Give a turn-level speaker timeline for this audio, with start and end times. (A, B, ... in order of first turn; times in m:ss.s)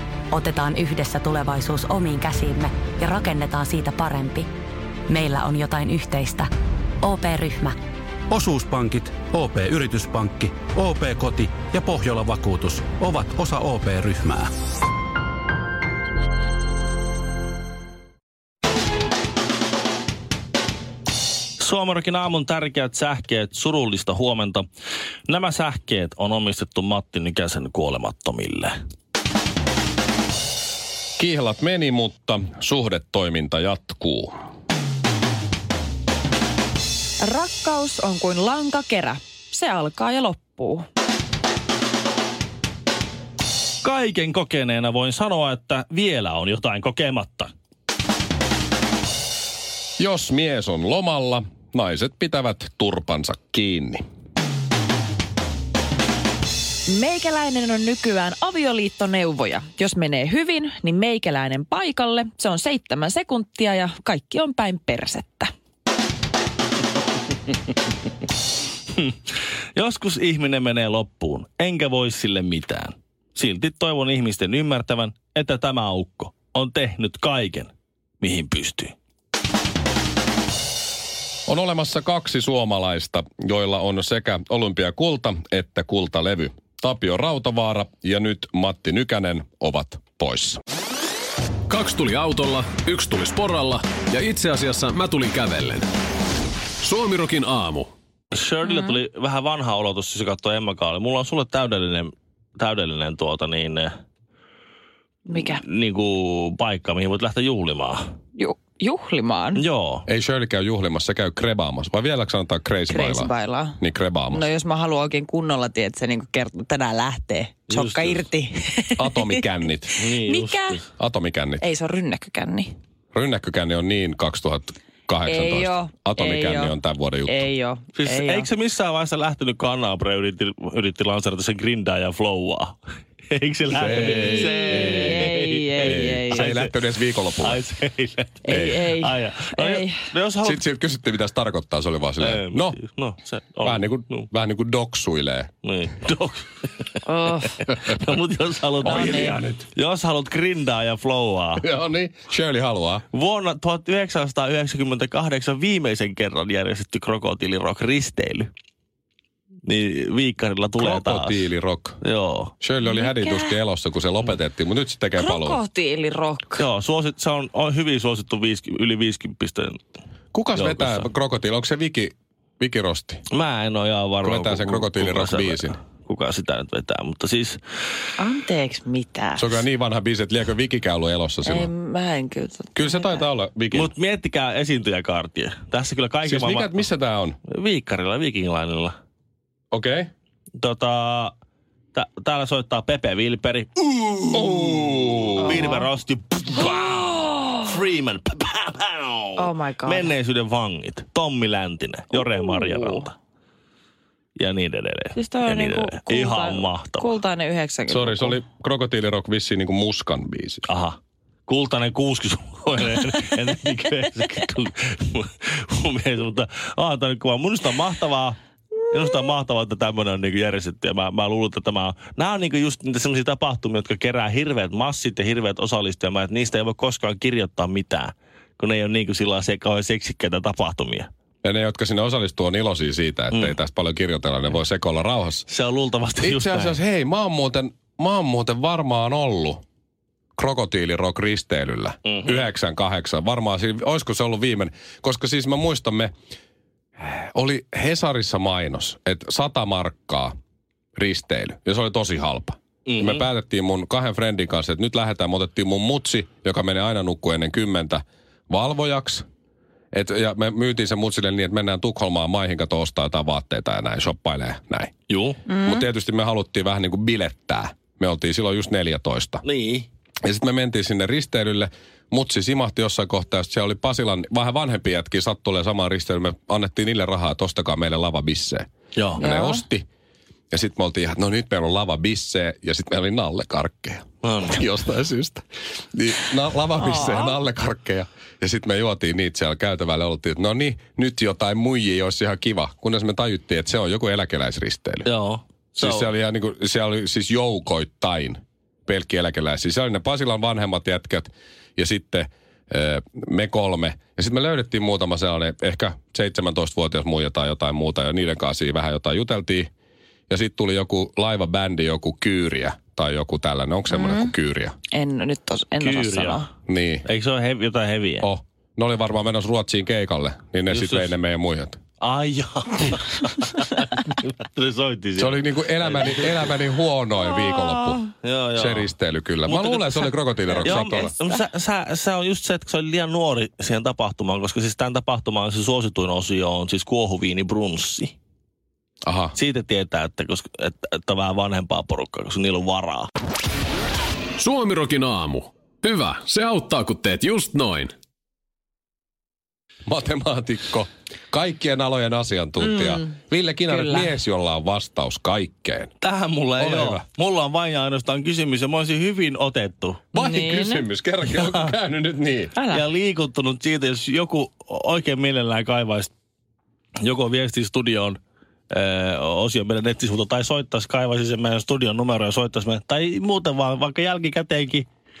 0:00.3-0:04.5 A
0:05.1-0:06.5 A
0:07.0-0:07.8 A
0:08.3-0:14.5 B
0:21.6-0:24.6 C
0:25.3-0:28.7 C
0:31.2-0:34.3 D
0:37.2-0:40.8 E
0:43.8-0:47.5 C
0:50.0-0:54.0 D
0:56.9-1:05.5 E
1:09.7-1:18.9 C
1:21.5-1:30.6 D
1:31.7-1:35.9 F
1:36.8-1:37.9 F
1:38.3-1:43.9 C
1:38.6-1:39.0 E
1:45.3-1:45.6 E
1:45.5-1:48.0 C
1:48.3-1:49.6 E
1:49.5-1:50.0 C
1:50.0-1:54.5 D
1:52.9-1:59.4 E
1:57.7-1:58.2 C
1:59.0-2:00.0 D
2:00.0-2:00.8 C
2:00.1-2:00.8 E
2:01.0-2:01.6 D
2:01.6-2:02.7 E
2:03.1-2:07.4 D
2:05.2-2:08.5 E
2:07.9-2:12.8 C
2:13.3-2:16.7 C
2:13.7-2:17.6 D
2:14.0-2:16.5 E
2:17.4-2:20.6 C
2:18.4-2:20.0 E
2:18.5-2:18.8 D
2:20.4-2:22.8 D
2:22.2-2:24.3 C
2:23.6-2:25.5 D
2:25.6-2:31.6 C
2:27.0-2:27.6 E
2:28.8-2:29.7 D
2:28.9-2:29.4 E
2:31.6-2:33.0 D
2:33.1-2:38.5 C
2:39.6-2:41.4 C
2:40.8-2:42.0 D
2:42.0-2:42.5 C
2:42.6-2:45.6 D
2:42.8-2:43.6 E
2:45.2-2:46.6 E
2:46.6-2:49.8 C
2:50.3-2:53.2 D
2:50.5-2:51.1 C
2:53.3-2:57.6 C
2:54.2-2:55.8 D
2:58.2-2:59.6 E
2:59.4-3:01.7 D
3:01.4-3:03.3 E
3:02.7-3:03.9 D
3:03.7-3:06.8 C
3:06.2-3:07.4 D
3:07.5-3:08.9 C
3:09.7-3:10.1 D
3:10.6-3:11.3 C
3:11.9-3:23.1 C
3:14.3-3:15.7 D
3:15.4-3:15.8 E
3:17.2-3:17.6 E
3:19.4-3:20.1 E
3:22.1-3:23.0 E
3:24.4-3:27.2 C
3:25.1-3:28.4 E
3:27.9-3:30.7 D
3:30.7-3:51.1 C
3:51.4-3:55.5 D
3:53.3-3:53.6 C
3:55.5-3:56.8 C
3:56.2-3:59.6 D
4:00.4-4:06.1 D
4:02.0-4:02.4 C
4:07.0-4:10.3 D
4:11.0-4:19.2 D
4:12.8-4:13.2 C
4:19.9-4:24.9 D
4:25.1-4:25.4 C
4:25.5-4:25.8 E
4:25.6-4:29.4 D
4:29.4-4:29.9 C
4:30.2-4:39.8 D
4:39.0-4:39.2 C
4:39.2-4:39.6 E
4:40.5-4:45.4 D
4:44.2-4:44.6 C
4:45.9-4:55.1 D
4:46.8-4:47.4 E
4:55.0-4:56.1 C
4:55.7-5:09.7 D
5:10.3-5:14.7 D
5:13.9-5:14.3 E
5:14.9-5:16.5 E
5:15.8-5:16.4 C
5:16.7-5:17.0 D
5:17.0-5:18.3 C
5:18.2-5:21.8 D
5:20.7-5:21.1 C
5:22.0-5:26.6 C
5:25.2-5:31.1 D
5:27.2-5:28.0 E
5:28.2-5:28.9 C
5:29.4-5:38.2 C
5:39.0-5:39.3 D
5:39.3-5:43.1 C
5:44.4-5:47.9 F
5:49.8-5:55.9 D
5:52.6-5:53.2 E
5:53.7-5:54.2 E
5:56.0-6:00.0 C
5:56.6-5:57.0 D
6:00.1-6:02.5 D
6:00.1-6:00.9 E
6:01.3-6:01.7 C
6:02.5-6:02.8 E
6:02.7-6:06.1 C
6:07.0-6:08.2 C
6:08.7-6:14.9 C